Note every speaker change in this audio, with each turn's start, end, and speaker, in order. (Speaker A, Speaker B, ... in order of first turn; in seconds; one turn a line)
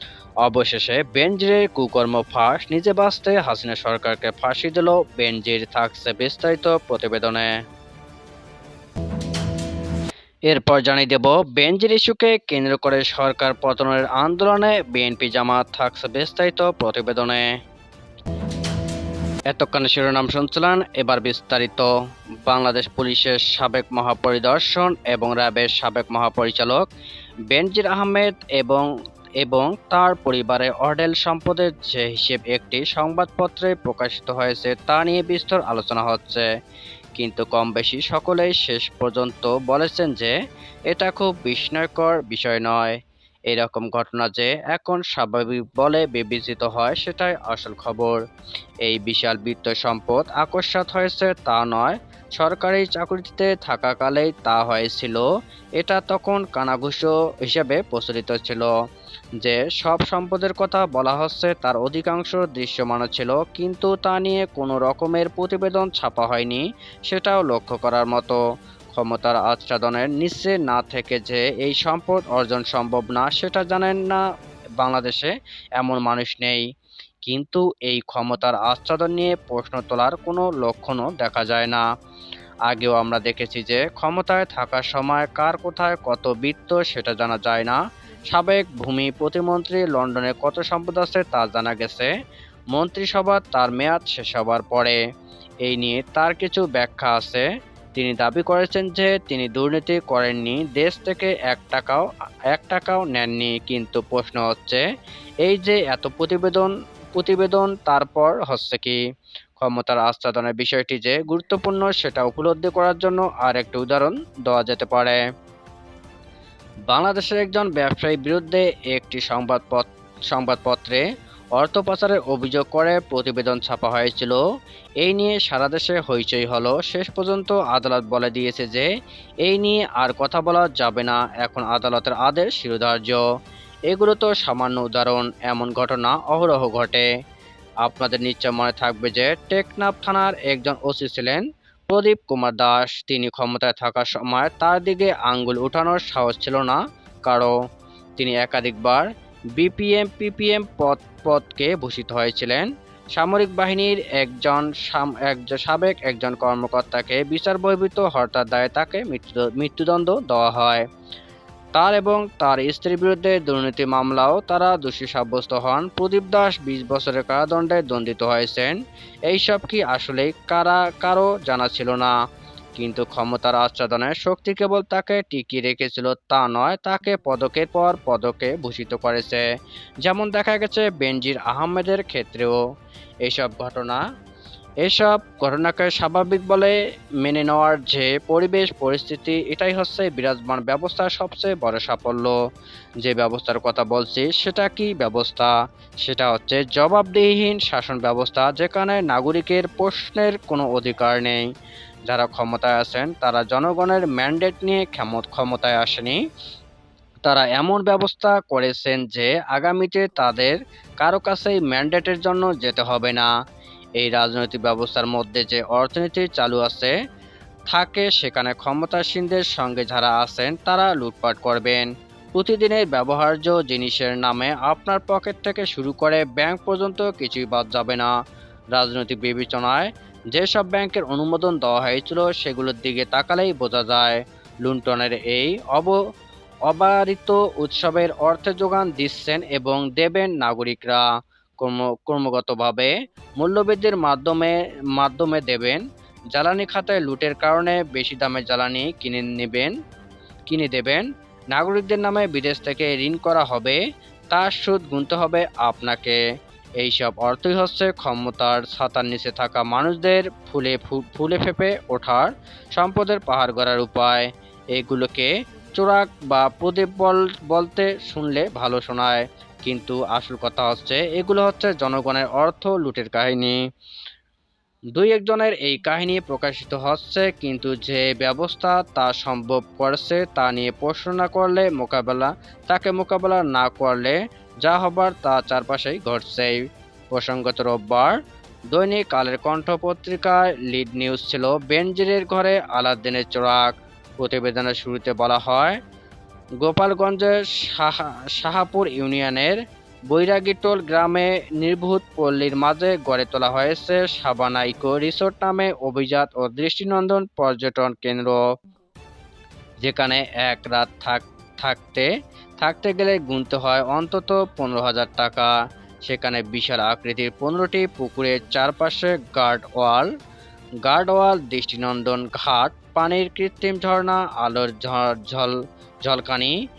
Speaker A: 0.4-7.5
Speaker A: 10.5-17.6
Speaker A: 19.5-21.9
Speaker A: 22.4-26.9
Speaker A: 27.5-28.9
Speaker A: 29.4-36.5
Speaker A: 37.2-40.4
Speaker A: 40.9-43.0
Speaker A: 43.5-48.2
Speaker A: 48.8-55.3
Speaker A: 55.8-58.7
Speaker A: 59.4-68.4
Speaker A: 68.9-74.2
Speaker A: 74.8-76.6
Speaker A: 77.2-81.8
Speaker A: 82.7-87.8
Speaker A: 88.3-92.1
Speaker A: 92.7-95.0
Speaker A: 95.7-104.8
Speaker A: 105.4-109.0
Speaker A: 109.6-115.2
Speaker A: 116.9-121.0
Speaker A: 121.6-124.4
Speaker A: 125.0-128.9
Speaker A: 129.4-133.2
Speaker A: 133.9-137.1
Speaker A: 137.8-147.5
Speaker A: 148.2-160.8
Speaker A: 161.8-168.8
Speaker A: 169.3-172.1
Speaker A: 172.8-179.4
Speaker A: 180.0-182.6
Speaker A: 183.3-184.0
Speaker A: 184.8-192.4
Speaker A: 193.0-195.5
Speaker A: 196.0-201.4
Speaker A: 202.1-206.2
Speaker A: 207.2-213.3
Speaker A: 214.0-216.9
Speaker A: 217.7-228.1
Speaker A: 228.7-236.0
Speaker A: 236.7-241.0
Speaker A: 241.6-245.8
Speaker A: 246.3-249.7
Speaker A: 250.5-256.2
Speaker A: 256.8-273.6
Speaker A: 274.9-286.6
Speaker A: 287.1-288.2
Speaker A: 288.7-295.8
Speaker A: 296.6-299.6
Speaker A: 300.1-308.4
Speaker A: 309.8-312.1
Speaker A: 312.6-315.5
Speaker A: 316.0-320.1
Speaker A: 320.8-326.6